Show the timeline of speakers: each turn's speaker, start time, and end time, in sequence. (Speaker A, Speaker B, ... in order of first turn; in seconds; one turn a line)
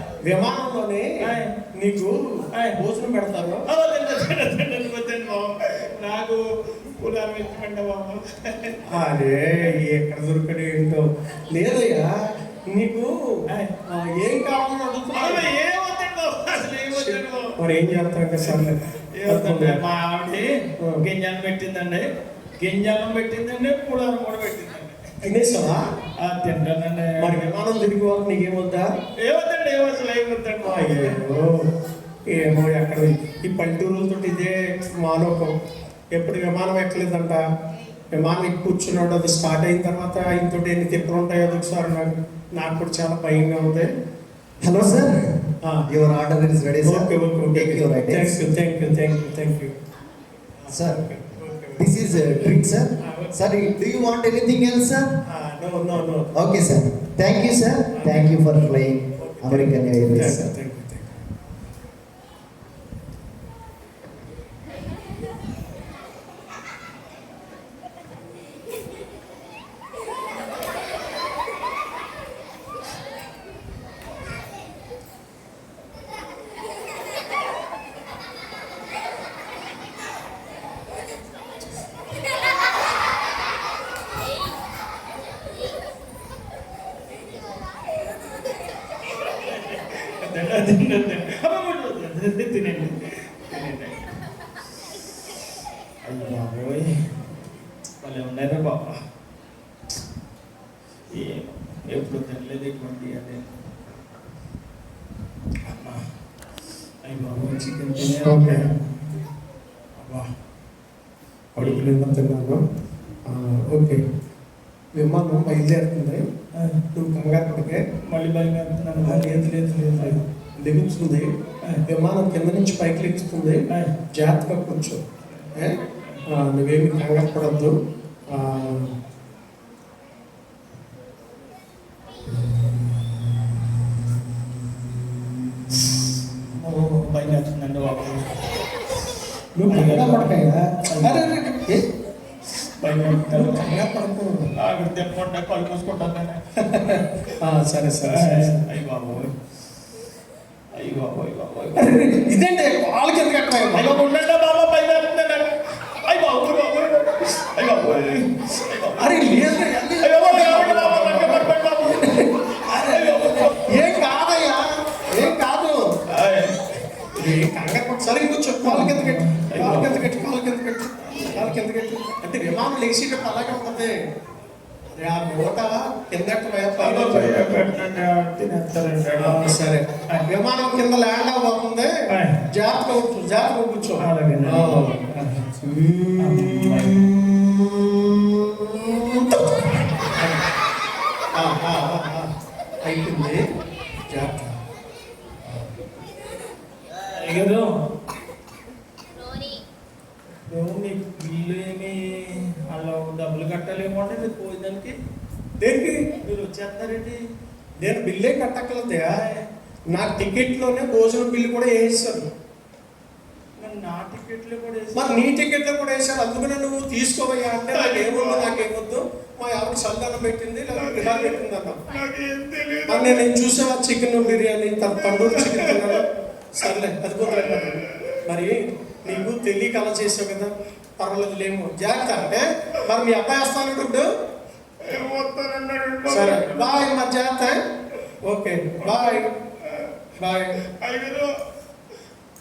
Speaker A: 0.2-1.1
Speaker B: 1.2-1.5
Speaker A: 1.7-3.7
Speaker B: 3.7-6.4
Speaker B: 7.0-8.8
Speaker A: 8.9-12.1
Speaker A: 12.7-15.5
Speaker B: 15.1-17.6
Speaker A: 16.9-19.8
Speaker B: 18.4-20.5
Speaker B: 21.0-22.1
Speaker B: 22.6-25.1
Speaker A: 25.2-25.9
Speaker B: 26.2-27.4
Speaker A: 27.2-29.0
Speaker B: 29.2-31.2
Speaker A: 30.6-31.7
Speaker A: 32.3-35.5
Speaker A: 36.1-37.4
Speaker A: 38.1-43.9
Speaker C: 44.6-45.3
Speaker A: 44.7-45.9
Speaker C: 45.9-48.5
Speaker A: 46.8-49.7
Speaker A: 50.6-53.4
Speaker C: 50.7-51.0
Speaker C: 51.8-55.1
Speaker A: 55.2-56.3
Speaker C: 56.3-60.4
Speaker A: 57.9-58.5
Speaker A: 59.2-61.2
Speaker B: 89.1-94.1
Speaker B: 96.0-96.9
Speaker B: 98.0-99.0
Speaker B: 101.1-103.7
Speaker B: 105.6-106.0
Speaker B: 107.0-109.2
Speaker A: 108.2-108.6
Speaker B: 110.0-110.3
Speaker A: 111.5-112.6
Speaker B: 111.6-111.9
Speaker A: 113.2-114.0
Speaker A: 114.9-116.2
Speaker A: 116.9-117.8
Speaker B: 118.1-120.2
Speaker A: 119.0-121.3
Speaker A: 121.9-125.0
Speaker B: 125.2-126.2
Speaker A: 125.5-127.7
Speaker A: 128.3-128.9
Speaker B: 136.6-138.3
Speaker A: 139.6-141.9
Speaker B: 139.7-141.3
Speaker B: 142.8-143.7
Speaker A: 143.2-144.5
Speaker B: 144.5-146.4
Speaker A: 146.7-148.6
Speaker B: 148.1-149.3
Speaker B: 150.8-152.2
Speaker A: 151.8-154.0
Speaker B: 153.7-159.4
Speaker A: 159.0-165.9
Speaker B: 160.0-162.0
Speaker B: 162.7-164.0
Speaker B: 166.1-166.5
Speaker A: 167.1-173.9
Speaker B: 168.6-170.1
Speaker B: 171.0-171.5
Speaker A: 174.9-177.6
Speaker B: 176.8-179.6
Speaker A: 179.2-181.9
Speaker B: 182.1-182.4
Speaker A: 182.5-190.3
Speaker B: 184.0-185.5
Speaker B: 186.2-187.0
Speaker A: 191.3-192.3
Speaker A: 192.8-193.4
Speaker A: 194.1-194.6
Speaker B: 197.1-197.7
Speaker B: 200.5-204.9
Speaker A: 205.6-206.0
Speaker B: 206.2-207.2
Speaker A: 207.8-209.2
Speaker B: 209.1-209.4
Speaker A: 209.9-212.3
Speaker B: 213.6-215.2
Speaker A: 214.9-221.8
Speaker B: 217.7-218.6
Speaker B: 220.7-223.3
Speaker A: 222.9-234.0
Speaker B: 224.8-226.0
Speaker B: 227.2-228.2
Speaker B: 234.8-236.8
Speaker A: 236.1-237.6
Speaker A: 238.2-239.3
Speaker B: 238.8-240.0
Speaker A: 240.2-240.6
Speaker B: 240.7-241.3